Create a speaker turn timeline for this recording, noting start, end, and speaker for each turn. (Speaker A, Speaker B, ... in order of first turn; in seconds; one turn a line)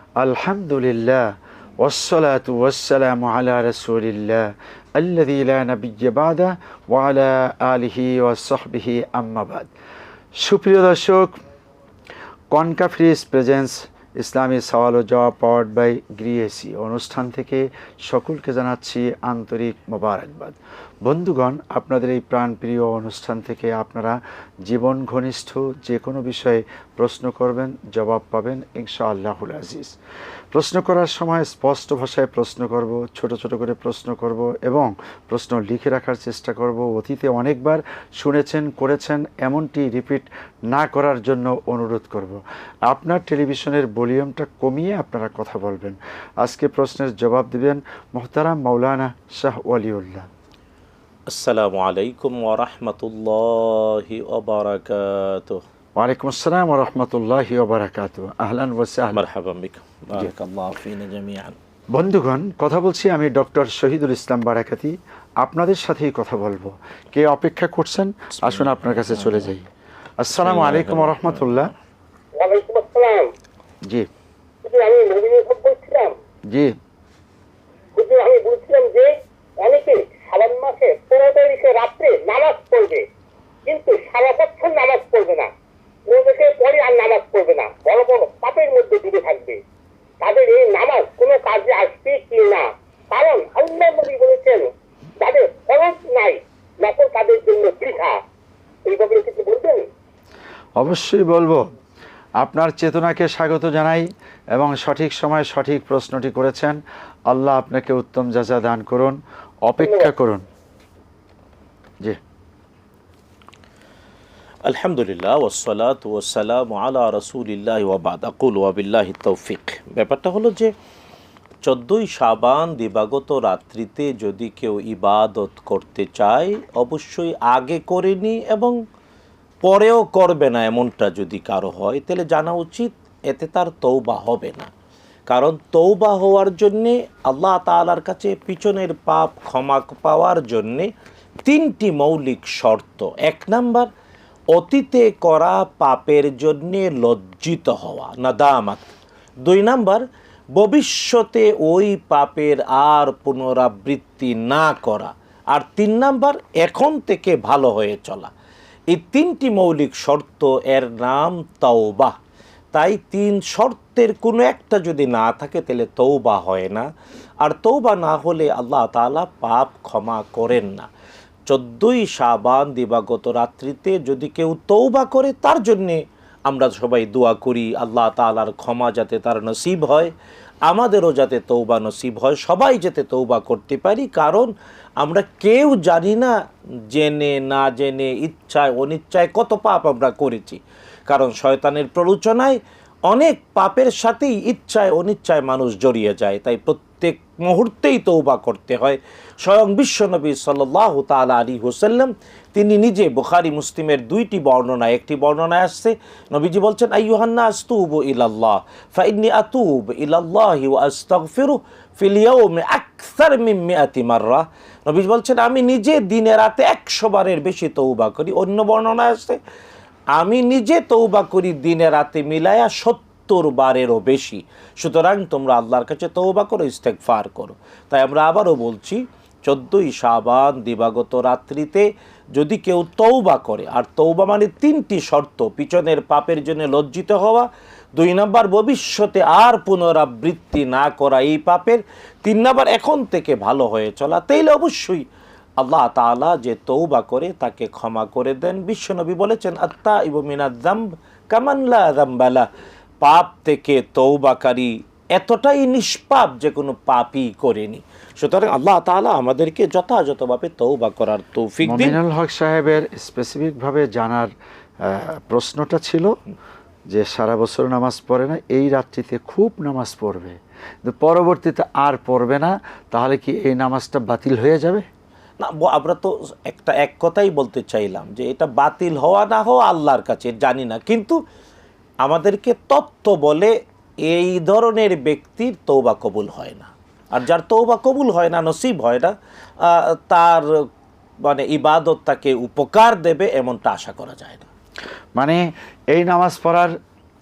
Speaker A: 0.2-9.7
Speaker A: 10.3-11.4
Speaker A: 12.5-29.9
Speaker A: 30.5-50.3
Speaker B: 51.3-55.6
Speaker A: 56.0-59.2
Speaker B: 59.1-61.6
Speaker A: 61.9-69.7
Speaker B: 68.4-69.5
Speaker A: 70.2-71.7
Speaker B: 70.3-71.7
Speaker C: 72.3-73.3
Speaker C: 74.6-76.2
Speaker A: 76.5-76.7
Speaker C: 78.0-83.0
Speaker C: 83.7-85.5
Speaker C: 86.1-89.6
Speaker C: 90.2-98.2
Speaker C: 98.8-99.9
Speaker A: 100.8-101.6
Speaker A: 102.4-110.4
Speaker B: 114.6-120.7
Speaker B: 121.6-128.8
Speaker B: 129.6-134.7
Speaker B: 135.3-140.9
Speaker B: 141.4-143.9
Speaker B: 144.5-148.9
Speaker B: 149.4-158.3
Speaker B: 158.9-162.2
Speaker B: 162.7-166.9
Speaker B: 167.4-170.9
Speaker B: 171.5-180.1
Speaker B: 180.7-186.3
Speaker B: 186.9-219.4
Speaker B: 220.1-245.0
Speaker B: 245.6-252.5
Speaker B: 253.0-262.0
Speaker A: 261.6-264.3
Speaker A: 264.8-266.2
Speaker A: 266.9-274.9
Speaker B: 275.4-281.2
Speaker B: 282.0-283.5
Speaker B: 284.1-290.5
Speaker B: 291.2-294.5
Speaker A: 295.2-296.8